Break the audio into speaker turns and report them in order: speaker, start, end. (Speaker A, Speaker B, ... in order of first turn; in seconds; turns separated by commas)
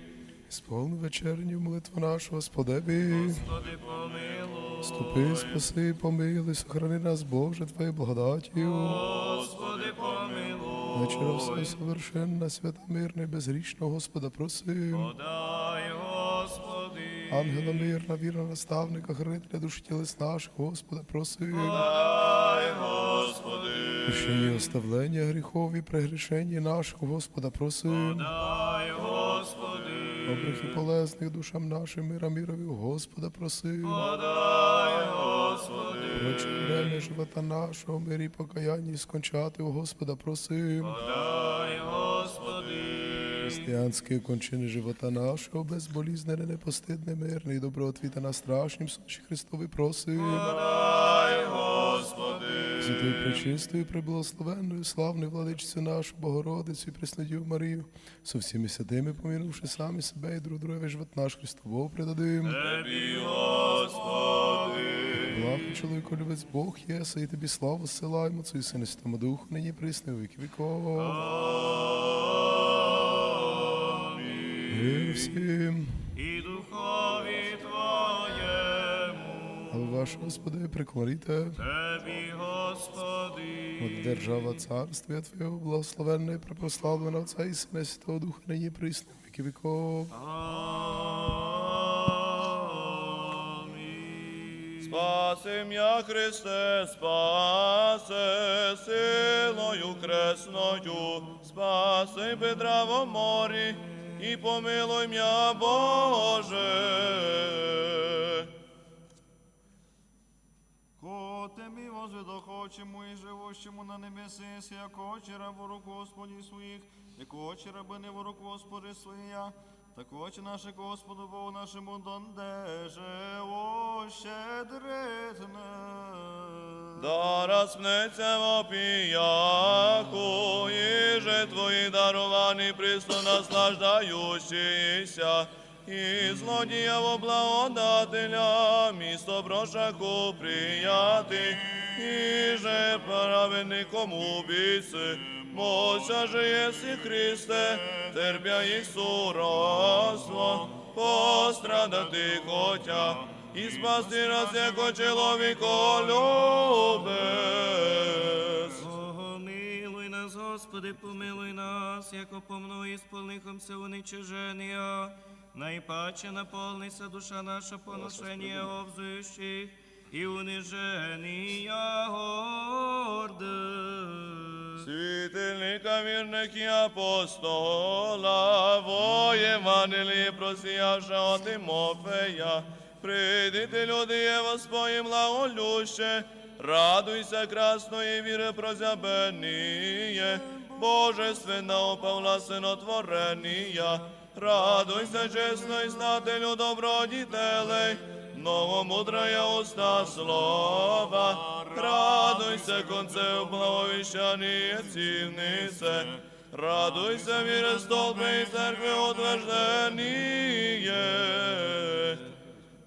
Speaker A: 0.5-3.5, Speaker B: 3.1-5.6, Speaker A: 4.8-9.1, Speaker B: 8.6-11.6, Speaker C: 9.1-11.7, Speaker A: 10.9-15.1, Speaker B: 14.9-17.9, Speaker A: 17.3-21.9, Speaker B: 21.6-23.0, Speaker C: 21.6-24.6, Speaker A: 24.1-28.3, Speaker B: 27.9-30.8, Speaker C: 28.5-29.7, Speaker A: 30.2-34.1, Speaker B: 33.8-37.0, Speaker C: 34.1-36.3, Speaker A: 36.1-41.0, Speaker C: 40.9-43.4, Speaker B: 41.0-43.7, Speaker A: 43.4-50.5, Speaker C: 50.2-53.4, Speaker B: 50.2-50.7, Speaker A: 52.8-62.6, Speaker C: 62.4-65.5, Speaker B: 62.6-63.4, Speaker A: 65.1-71.3, Speaker B: 71.0-72.1, Speaker C: 71.2-72.4, Speaker A: 74.7-76.1, Speaker B: 76.2-79.9, Speaker A: 79.7-81.6, Speaker B: 81.6-84.5, Speaker A: 83.8-90.2, Speaker B: 90.2-92.2, Speaker B: 93.6-94.9, Speaker C: 94.8-108.5, Speaker D: 111.0-127.1, Speaker C: 127.0-158.8, Speaker D: 154.0-155.8, Speaker B: 158.8-174.8, Speaker C: 168.3-168.7, Speaker C: 174.8-212.2, Speaker D: 201.9-202.2